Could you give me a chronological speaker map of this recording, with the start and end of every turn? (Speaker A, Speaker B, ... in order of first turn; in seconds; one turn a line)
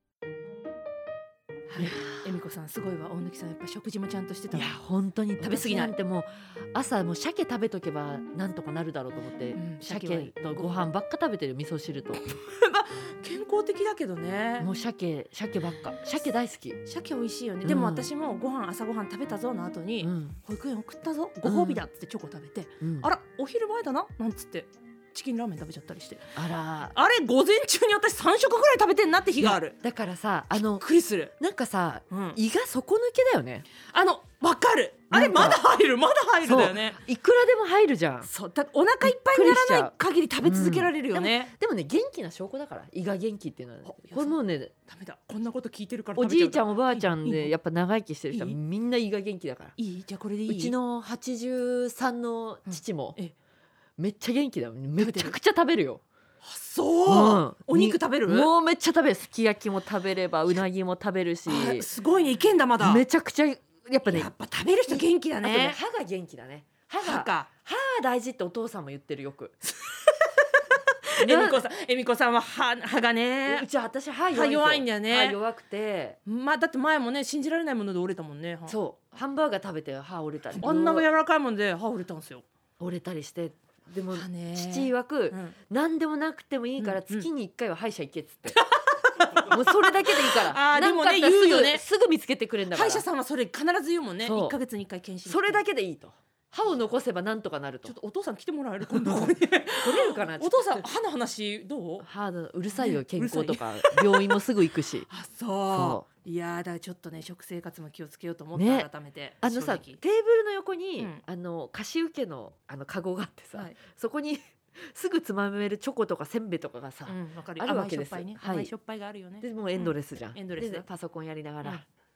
Speaker A: 1.7-4.7
Speaker B: 1.8-2.2
Speaker B: 4.5-12.2
Speaker A: 5.4-5.9
Speaker A: 9.5-10.8
Speaker A: 12.2-14.7
Speaker B: 14.6-16.8
Speaker A: 16.9-26.4
Speaker B: 17.6-18.1
Speaker B: 20.0-20.4
Speaker B: 21.4-21.8
Speaker B: 22.8-23.1
Speaker B: 26.3-26.9
Speaker A: 26.9-29.8
Speaker B: 29.4-30.9
Speaker A: 30.8-31.3
Speaker B: 31.4-33.6
Speaker A: 32.1-32.4
Speaker A: 33.8-37.0
Speaker B: 35.1-35.6
Speaker B: 36.4-38.3
Speaker A: 38.2-41.5
Speaker B: 39.0-44.7
Speaker A: 43.8-47.5
Speaker B: 46.1-49.8
Speaker A: 48.3-48.6
Speaker A: 49.8-50.7
Speaker B: 50.5-53.2
Speaker A: 52.6-53.3
Speaker B: 54.0-56.0
Speaker A: 55.0-55.4
Speaker A: 56.4-58.5
Speaker B: 57.0-61.9
Speaker A: 61.5-63.0
Speaker B: 62.8-64.3
Speaker A: 64.0-65.8
Speaker B: 64.9-69.6
Speaker A: 67.0-67.5
Speaker A: 69.8-73.7
Speaker B: 71.2-71.7
Speaker B: 73.5-76.2
Speaker A: 74.3-75.4
Speaker A: 76.2-78.8
Speaker B: 78.7-81.1
Speaker A: 80.6-82.5
Speaker B: 82.8-88.6
Speaker A: 84.1-85.5
Speaker A: 86.8-87.3
Speaker A: 88.5-91.8
Speaker B: 89.4-93.0
Speaker A: 92.7-95.6
Speaker B: 94.2-94.6
Speaker B: 95.2-97.9
Speaker A: 97.8-102.1
Speaker B: 98.8-100.8
Speaker B: 102.0-105.1
Speaker A: 102.7-104.3
Speaker A: 105.1-110.0
Speaker B: 105.7-106.0
Speaker B: 108.5-108.9
Speaker B: 109.4-118.7
Speaker A: 111.0-111.2
Speaker A: 117.0-120.8
Speaker B: 119.4-121.8